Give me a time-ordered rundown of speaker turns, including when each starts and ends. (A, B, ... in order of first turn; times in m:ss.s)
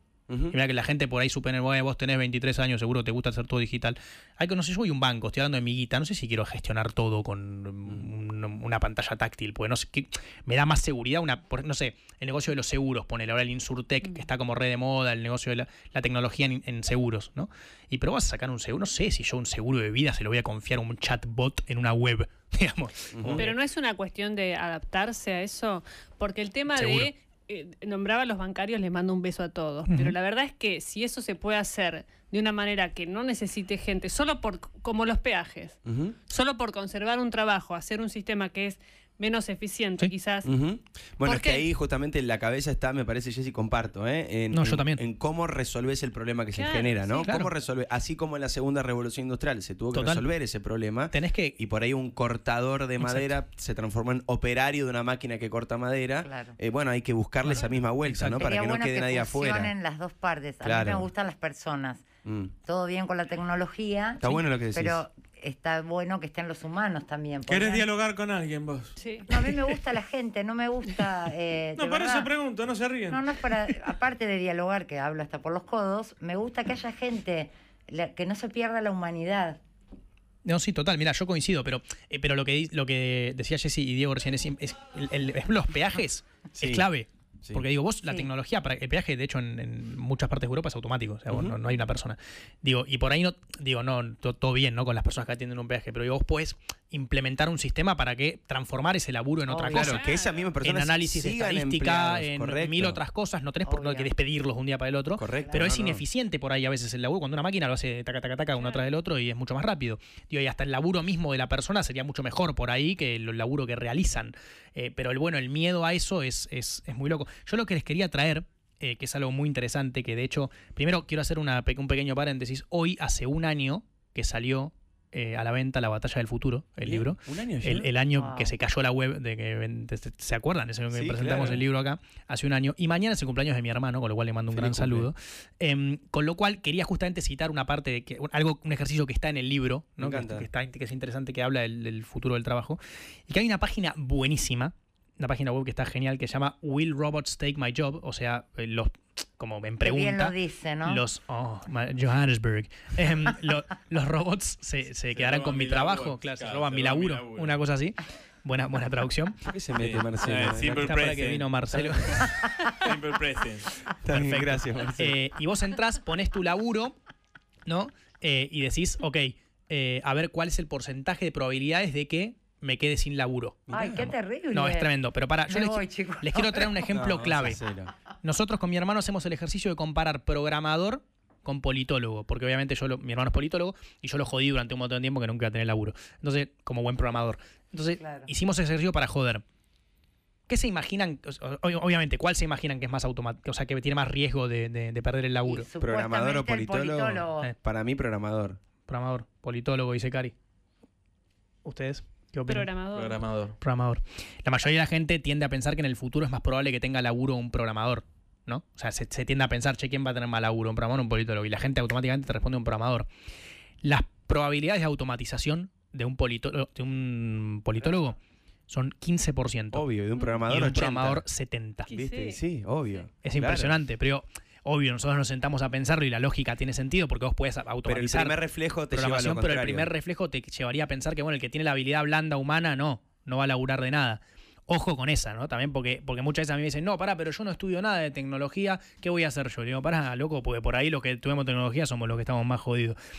0:00.3-0:00.6 A
0:00.5-0:23.5 B
0:23.2-0:23.5 A
0:23.4-0:35.8 C
0:26.7-0:27.1 B
0:29.9-0:30.1 B
0:35.8-0:36.2 A
0:36.3-0:40.5 C
0:40.4-0:59.8 A
0:41.2-0:41.6 C
0:44.5-0:45.0 B
0:46.5-0:47.3 C
0:47.2-0:47.5 B
0:49.9-0:50.3 B
0:51.1-0:51.6 B
0:53.0-0:53.3 B
0:56.2-0:56.6 D
0:57.4-0:58.5 B
0:58.4-1:02.0 D
1:00.6-1:01.1 A
1:02.2-1:02.5 A
1:02.6-1:07.9 D
1:04.2-1:05.0 A
1:07.5-1:09.7 E
1:09.0-1:09.3 C
1:09.3-1:12.3 D
1:11.8-1:13.6 E
1:13.1-1:19.6 D
1:20.4-1:40.0 B
1:26.6-1:26.9 A
1:31.3-1:31.6 A
1:39.5-1:40.1 D
1:39.7-1:43.0 A
1:39.8-1:40.4 C
1:40.6-2:39.4 B
1:43.6-1:44.1 D
1:45.2-1:46.0 A
1:45.4-1:45.7 D
1:48.6-1:48.8 C
2:06.8-2:07.9 A
2:08.1-2:08.6 D
2:10.9-2:11.6 A
2:14.5-2:15.1 A
2:20.0-2:20.5 A
2:29.8-2:31.0 D
2:35.1-2:37.6 E
2:39.4-2:41.9 A
2:39.8-2:41.5 E
2:40.7-2:42.3 B
2:42.1-2:43.7 E
2:44.1-2:45.2 A
2:44.1-2:47.0 B
2:47.6-2:53.7 B
2:53.7-2:54.1 A
2:53.7-2:54.9 D
2:54.5-2:57.6 B
2:55.5-2:56.8 D
2:56.9-2:57.9 A
2:58.2-3:09.4 B
3:08.0-3:08.3 D
3:10.5-3:15.7 B
3:15.4-3:17.5 D
3:15.8-3:18.6 A
3:18.9-3:20.3 B
3:21.6-3:22.7 B
3:22.5-3:23.3 C
3:22.9-3:23.6 E
3:23.6-3:33.1 B
3:33.8-3:38.2 B
3:38.7-3:39.8 B
3:39.7-3:41.2 A
3:40.4-3:41.9 B
3:41.9-3:43.8 A
3:41.9-3:42.4 C
3:43.2-4:03.0 B
3:47.8-3:49.9 A